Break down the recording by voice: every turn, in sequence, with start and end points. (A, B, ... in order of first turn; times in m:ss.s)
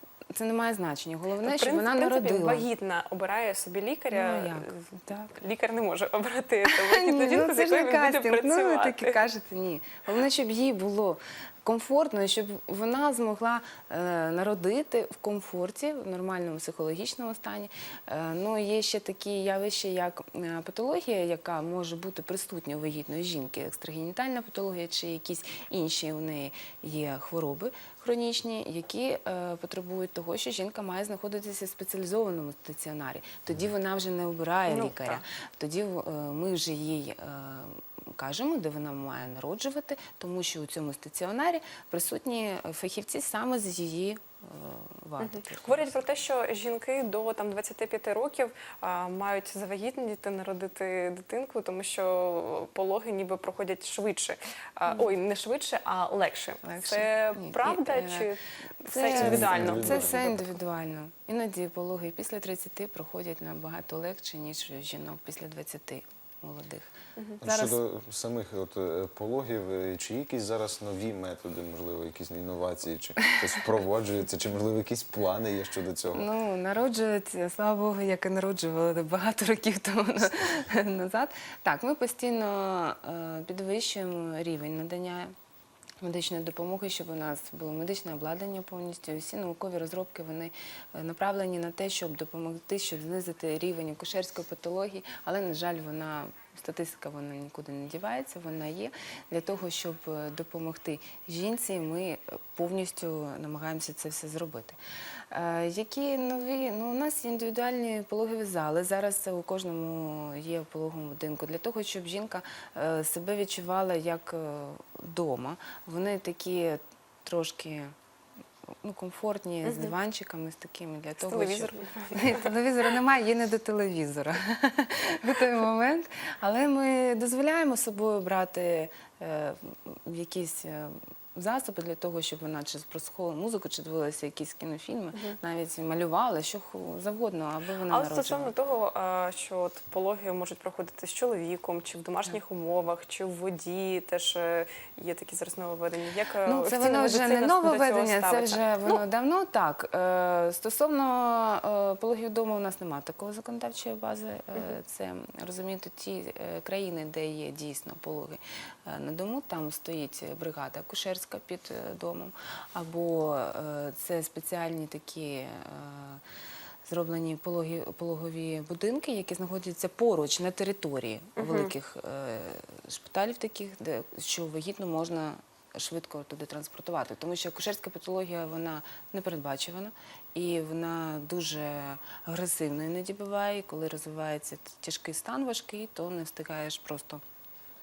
0:00.3-0:02.6 A
0:01.4-0:04.7 B
0:04.1-0:05.3 A
0:05.2-0:09.2 B
0:06.7-0:46.0 A
0:34.7-0:35.2 B
0:45.2-1:00.3 B
0:56.6-0:58.3 A
0:58.8-1:07.8 A
0:59.1-1:00.4 C
1:07.4-1:16.2 C
1:16.1-1:25.3 A
1:26.0-1:44.8 A
1:45.3-1:57.9 A
1:58.8-2:18.5 A
1:59.6-1:59.9 B
2:01.2-2:02.5 B
2:17.9-2:29.0 B
2:26.4-2:46.2 A
2:46.8-3:07.2 A
2:51.4-2:51.7 B